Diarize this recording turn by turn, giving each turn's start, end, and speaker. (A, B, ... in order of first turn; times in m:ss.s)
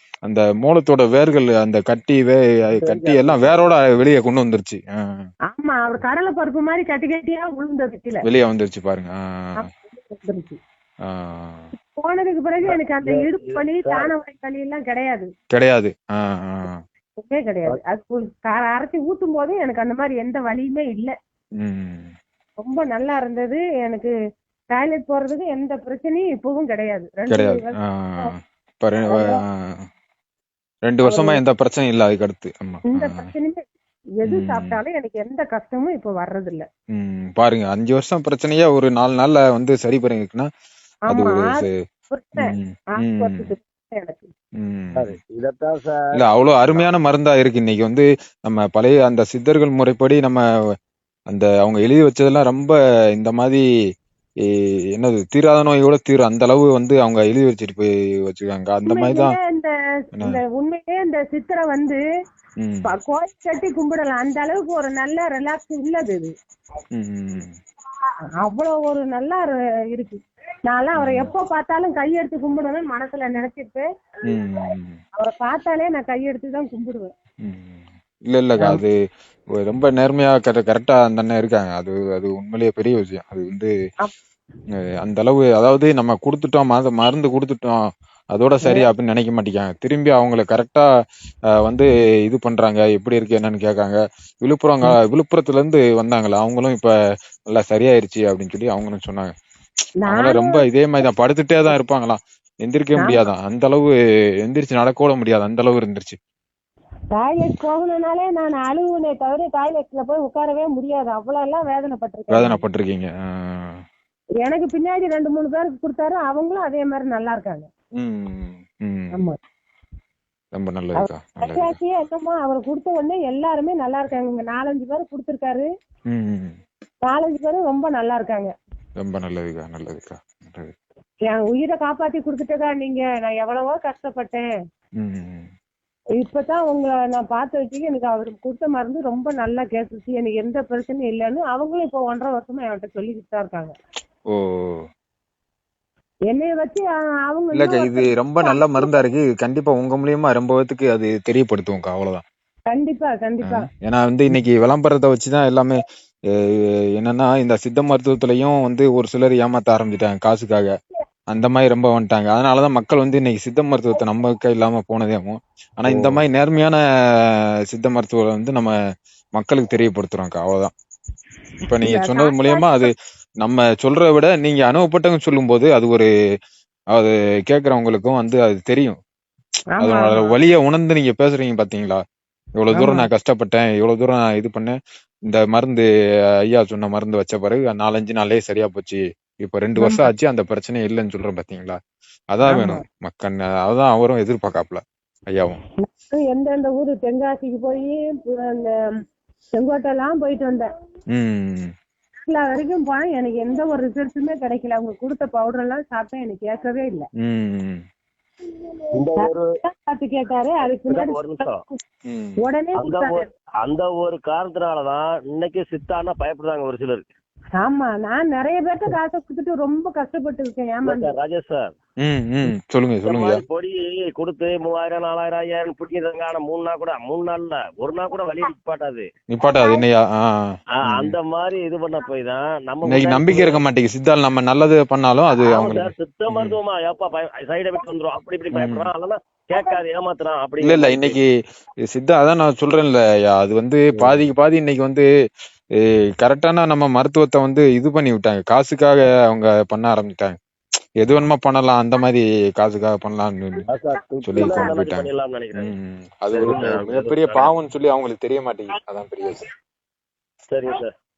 0:00.3-0:05.2 A
0:02.8-0:03.7 B
0:05.5-0:08.2 C
0:08.2-0:09.2 A
0:09.6-0:10.6 C
0:11.1-0:11.7 A
0:11.7-0:15.3 C
0:12.6-0:14.1 B
0:15.5-0:16.8 A
0:17.2-0:21.1 C
0:21.6-0:22.1 A
0:22.6-0:24.1 C
0:24.7-0:28.3 C
0:27.3-0:29.3 A
0:29.0-0:29.4 C
0:30.9-0:33.3 A
0:31.0-0:31.4 C
0:32.9-0:33.7 C
0:34.2-0:36.6 C
0:34.3-0:34.8 A
0:36.9-0:40.5 A
0:41.1-0:41.7 A
0:41.1-0:44.3 C
0:42.4-0:43.5 A
0:44.6-0:45.2 A
0:45.0-0:46.9 B
0:46.1-0:50.4 A
0:51.3-0:53.6 A
0:54.4-0:59.4 A
0:58.9-1:02.0 C
1:02.6-1:02.9 A
1:02.9-1:06.3 C
1:06.9-1:07.5 A
1:08.4-1:13.8 C
1:11.0-1:11.3 A
1:14.3-1:15.0 A
1:15.2-1:17.1 C
1:17.4-1:18.9 A
1:19.6-1:23.7 A
1:25.0-1:27.8 A
1:28.3-1:30.9 A
1:28.6-1:28.9 C
1:31.6-1:36.9 A
1:37.5-1:39.3 A
1:40.0-1:40.6 C
1:40.1-1:43.9 A
1:43.0-1:43.2 C
1:44.4-1:46.2 A
1:47.1-1:52.6 C
1:52.3-1:53.8 A
1:54.4-1:57.7 C
1:58.0-1:59.2 A
2:00.5-2:01.8 A
2:01.0-2:05.7 C
2:06.1-2:06.6 A
2:07.0-2:08.5 C
2:09.0-2:10.7 A
2:11.3-2:14.5 C
2:15.0-2:15.5 A
2:16.2-2:23.7 C
2:24.3-2:24.8 A
2:26.3-2:29.0 C
2:27.5-2:32.2 A
2:32.7-2:33.7 C
2:33.4-2:35.8 A
2:36.3-2:40.7 A
2:41.3-2:48.7 A
2:45.8-2:46.2 B
2:49.4-2:50.7 A
2:51.7-2:52.9 A
2:51.8-2:52.9 C
2:53.4-2:56.1 A
2:56.9-2:59.0 A
2:59.8-3:00.3 C
2:59.8-3:02.0 A
3:02.6-3:04.8 A
3:02.7-3:03.1 C
3:05.3-3:05.8 A
3:06.5-3:11.8 A
3:09.8-3:10.1 C
3:12.3-3:15.6 A
3:12.5-3:12.8 C
3:15.8-3:18.8 C
3:19.6-3:20.7 C
3:21.1-3:21.7 A
3:22.2-3:27.0 C
3:27.2-3:27.8 A
3:28.9-3:29.5 B
3:29.2-3:31.8 C
3:30.9-3:31.6 B
3:32.1-3:32.4 A
3:32.4-3:33.2 C
3:32.8-3:37.1 B
3:37.6-3:41.1 C
3:40.8-3:41.7 B
3:42.0-3:43.4 A
3:43.0-3:49.1 B
3:49.3-3:51.1 A
3:49.4-3:49.8 C
3:50.8-3:53.6 B
3:52.8-3:56.6 A
3:55.4-4:01.2 B
3:58.5-3:58.9 A
4:00.6-4:01.3 A
4:01.9-4:05.0 A
4:03.9-4:04.2 B
4:05.8-4:10.4 A
4:11.0-4:13.6 A
4:13.7-4:15.7 B
4:14.2-4:19.4 A
4:14.4-4:14.7 C
4:16.3-4:17.5 B
4:20.5-4:20.9 B